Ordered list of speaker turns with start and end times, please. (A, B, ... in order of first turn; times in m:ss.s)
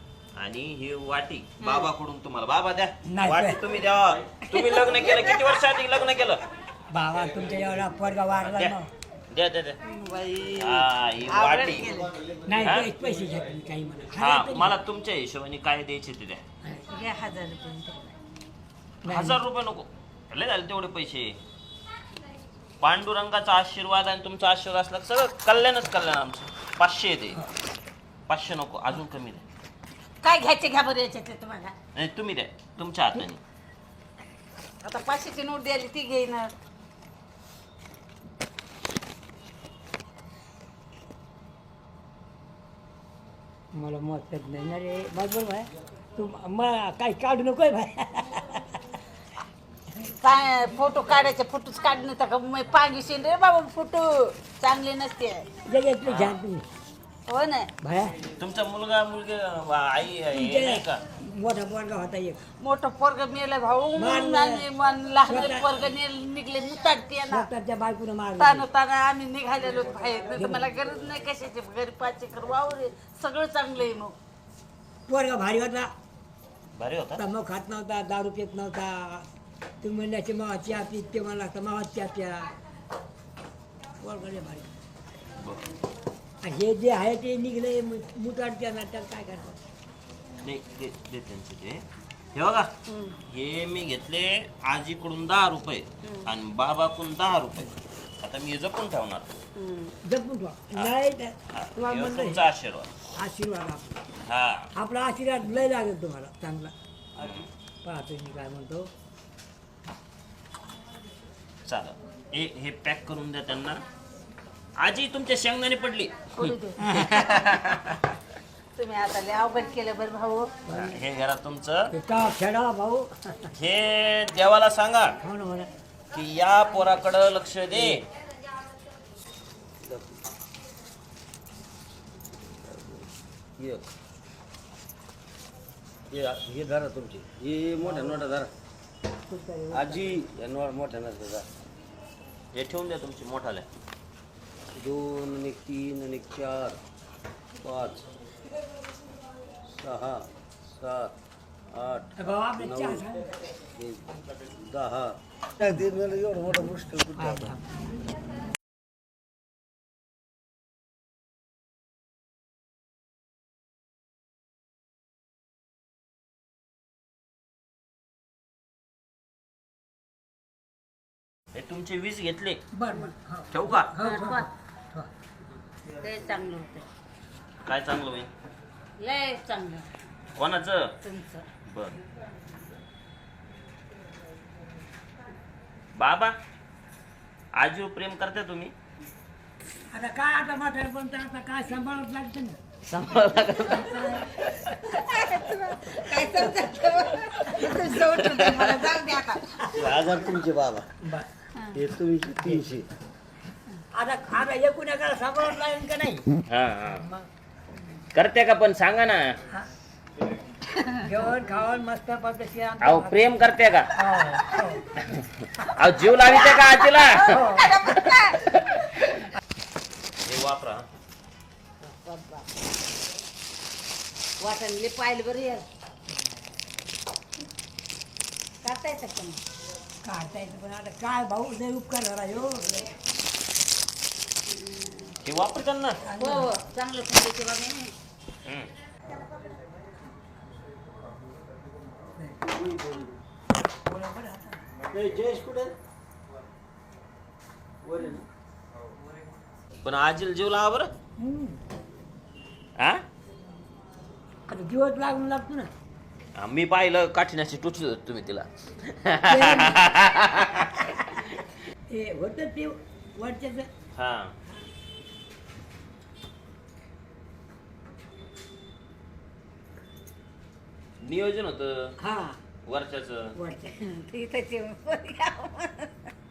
0:00.4-0:06.4 A
0:01.6-0:01.9 B
0:03.0-0:03.6 C
0:04.5-0:05.4 B
0:06.9-0:08.9 C
0:08.4-0:08.8 A
0:09.3-0:09.8 A
0:09.8-0:12.2 B
0:10.6-0:11.9 A
0:12.4-0:14.8 C
0:12.6-0:12.9 A
0:14.2-0:16.4 A
0:16.6-0:16.9 C
0:16.9-0:18.1 B
0:19.0-0:19.4 C
0:19.1-0:21.4 A
0:22.8-0:27.4 A
0:28.3-0:29.4 A
0:30.2-0:31.7 B
0:31.9-0:33.4 A
0:34.8-0:36.5 B
0:43.7-0:48.8 C
0:50.2-0:55.5 B
0:55.6-0:56.6 C
0:56.0-0:56.4 A
0:57.3-0:57.7 B
0:57.8-0:58.2 C
0:58.3-1:01.0 A
1:00.3-1:02.4 C
1:02.6-1:07.5 B
1:03.9-1:04.7 C
1:05.2-1:05.8 C
1:07.3-1:08.7 C
1:08.4-1:14.1 B
1:10.3-1:10.7 C
1:15.1-1:15.9 C
1:16.7-1:17.2 A
1:17.2-1:19.3 C
1:19.8-1:22.5 C
1:24.0-1:24.7 C
1:25.4-1:25.7 A
1:26.4-1:29.6 C
1:30.4-1:32.7 A
1:32.9-1:33.2 B
1:33.3-1:39.3 A
1:39.6-1:39.9 B
1:40.0-1:42.5 C
1:41.5-1:42.9 A
1:43.2-1:44.0 C
1:44.3-1:44.7 A
1:44.8-1:46.7 C
1:47.2-1:47.5 A
1:47.8-1:48.9 C
1:51.6-1:53.8 A
1:54.8-1:56.2 A
1:56.3-1:57.2 B
1:56.8-1:57.1 C
1:56.8-1:58.0 A
1:58.8-2:00.5 B
2:00.7-2:00.9 C
2:00.7-2:01.9 A
2:01.9-2:03.5 C
2:03.5-2:05.2 A
2:05.2-2:05.7 C
2:06.1-2:08.0 A
2:09.8-2:10.1 D
2:12.5-2:13.0 D
2:16.1-2:18.5 D
2:17.8-2:18.3 C
2:19.3-2:20.2 C
2:19.7-2:21.5 D
2:22.5-2:23.6 A
2:24.7-2:26.8 D
2:27.6-2:28.0 D
2:29.6-2:31.1 D
2:31.7-2:33.0 D
2:32.2-2:33.4 C
2:33.8-2:34.1 D
2:34.6-2:37.5 D
2:37.2-2:37.8 C
2:51.5-2:52.6 A
2:52.7-2:55.1 C
2:53.5-2:53.9 A
2:54.0-2:54.5 B
2:56.0-2:56.9 B
2:57.6-2:58.3 A
2:59.0-2:59.9 B
3:00.3-3:00.9 A
3:01.0-3:01.4 B
3:01.7-3:02.0 A
3:06.0-3:06.3 A
3:07.5-3:08.7 A
3:09.9-3:12.6 C
3:12.9-3:14.7 A
3:13.6-3:14.3 B
3:14.8-3:19.6 B
3:16.3-3:16.6 C
3:17.5-3:17.8 C
3:17.9-3:18.7 A
3:19.7-3:20.9 D
3:21.0-3:21.3 C
3:21.7-3:22.8 D
3:23.9-3:26.2 C
3:26.5-3:27.0 A
3:26.8-3:27.2 C
3:28.1-3:29.4 A
3:30.7-3:31.1 B
3:31.0-3:34.9 C
3:32.8-3:33.9 A
3:35.0-3:39.1 A
3:36.1-3:38.4 B
3:37.3-3:37.7 C
3:40.2-3:40.8 A
3:41.8-3:42.5 B
3:44.4-3:45.6 B
3:48.6-3:49.4 B
3:50.0-3:52.9 C
3:54.5-3:55.1 B
3:55.2-3:56.0 A
3:56.0-3:56.5 C
3:56.2-3:57.9 B
3:58.4-3:58.7 A
4:02.2-4:02.5 C
4:02.5-4:03.1 D
4:03.7-4:04.7 C
4:04.9-4:05.7 D
4:07.8-4:08.2 D
4:09.8-4:10.9 A
4:11.2-4:11.6 C
4:12.8-4:13.0 A
4:14.5-4:15.7 C
4:16.4-4:21.2 A
4:19.2-4:19.8 C
4:21.9-4:23.7 C
4:23.9-4:24.3 A
4:31.0-4:31.9 A
4:32.0-4:32.4 C
4:32.6-4:33.3 A
4:33.4-4:33.8 C
4:33.8-4:36.1 B